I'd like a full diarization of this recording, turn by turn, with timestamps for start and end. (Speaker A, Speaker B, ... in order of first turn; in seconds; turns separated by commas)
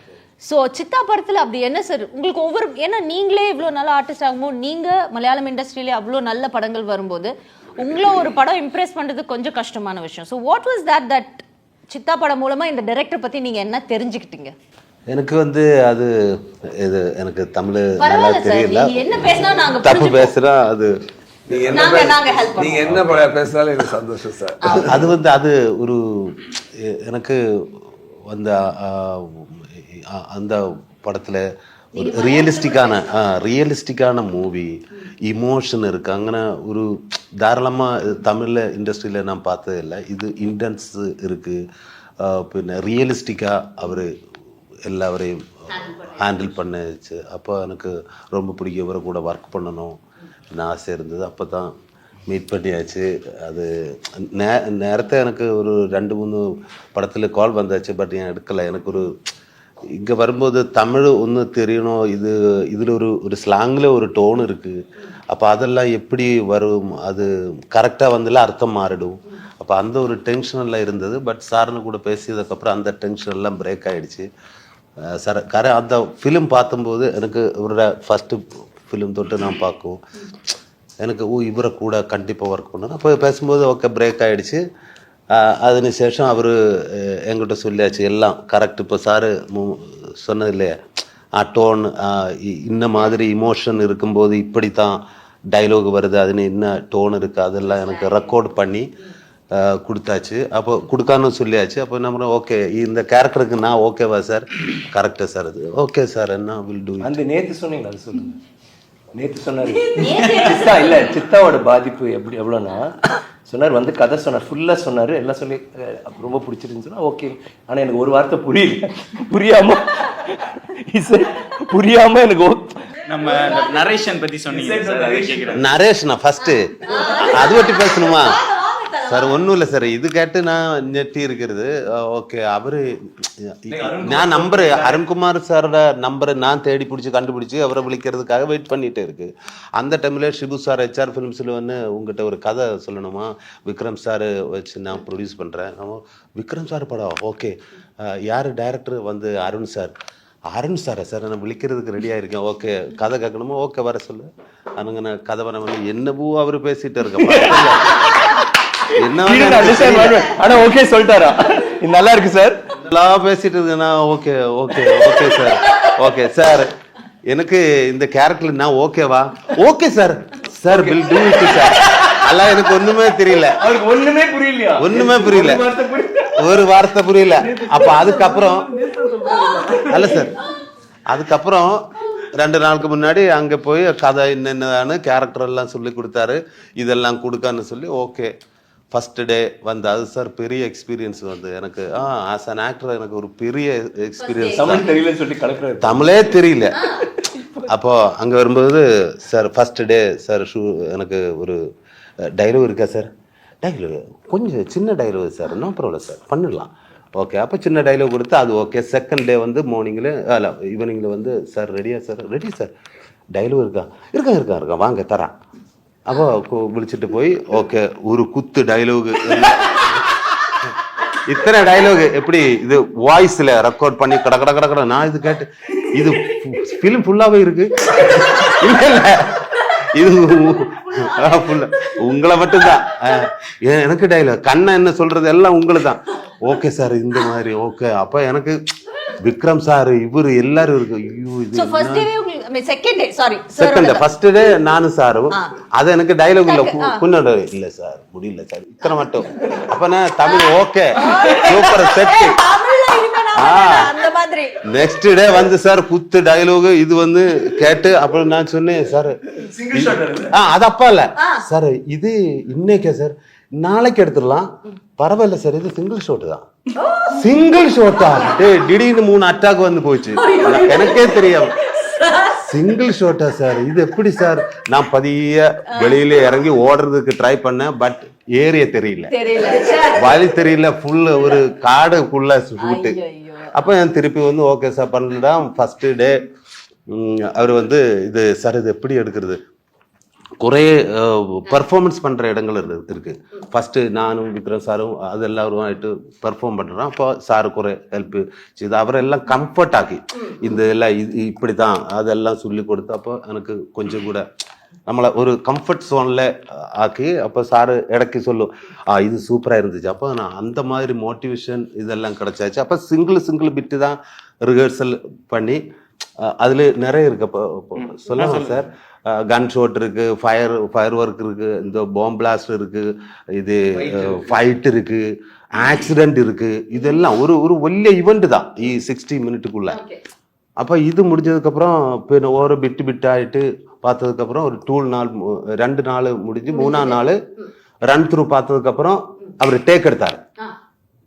Speaker A: 0.4-14.5, Speaker B: 15.1-21.0, Speaker A: 18.0-20.3, Speaker C: 21.5-25.1, Speaker A: 21.7-23.0, Speaker B: 24.6-41.6, Speaker A: 32.0-33.1, Speaker B: 42.2-44.1, Speaker B: 44.8-50.0, Speaker B: 50.5-51.7, Speaker B: 52.3-59.1, Speaker B: 59.9-74.3, Speaker B: 75.0-80.0, Speaker B: 81.0-84.6, Speaker B: 85.3-90.8, Speaker B: 91.3-95.0, Speaker B: 95.5-98.9, Speaker B: 99.5-107.2, Speaker D: 107.0-108.3, Speaker D: 109.1-122.9, Speaker A: 109.9-110.9, Speaker E: 123.1-125.6, Speaker D: 124.5-125.6, Speaker B: 125.5-128.3, Speaker A: 126.9-129.4, Speaker B: 129.0-149.9, Speaker D: 133.7-135.0, Speaker B: 150.5-158.2, Speaker D: 157.2-158.4, Speaker B: 158.9-160.3, Speaker D: 159.2-162.8, Speaker B: 162.8-166.7, Speaker B: 167.2-173.6, Speaker D: 170.7-172.0, Speaker D: 173.6-176.7, Speaker B: 174.8-175.7, Speaker B: 176.3-178.7, Speaker D: 177.3-180.1, Speaker B: 179.9-180.4, Speaker B: 181.1-188.3, Speaker B: 188.9-194.9, Speaker A: 194.2-194.9, Speaker D: 194.5-196.3, Speaker B: 195.8-196.8, Speaker A: 196.7-197.0, Speaker D: 197.1-197.7, Speaker B: 197.7-201.6, Speaker B: 202.3-203.1, Speaker B: 203.6-212.7, Speaker B: 213.3-215.3, Speaker B: 216.1-220.7, Speaker B: 221.2-238.6, Speaker B: 239.1-242.1, Speaker A: 241.5-244.0, Speaker B: 243.6-252.4, Speaker A: 246.4-247.0, Speaker A: 250.9-254.6, Speaker B: 253.3-253.9, Speaker B: 254.7-266.4, Speaker D: 259.4-260.3, Speaker A: 261.2-261.4, Speaker A: 266.8-267.2, Speaker B: 267.1-271.5, Speaker A: 270.1-272.4, Speaker B: 272.4-279.1, Speaker A: 275.7-276.0, Speaker A: 279.1-280.2, Speaker B: 279.9-283.0, Speaker A: 282.6-283.6, Speaker B: 283.5-286.3, Speaker B: 286.9-289.4, Speaker B: 290.4-304.2, Speaker B: 304.9-315.6, Speaker B: 316.2-329.8, Speaker D: 323.8-324.1, Speaker A: 329.7-330.0, Speaker B: 330.6-337.2, Speaker A: 336.6-336.9, Speaker B: 337.8-340.2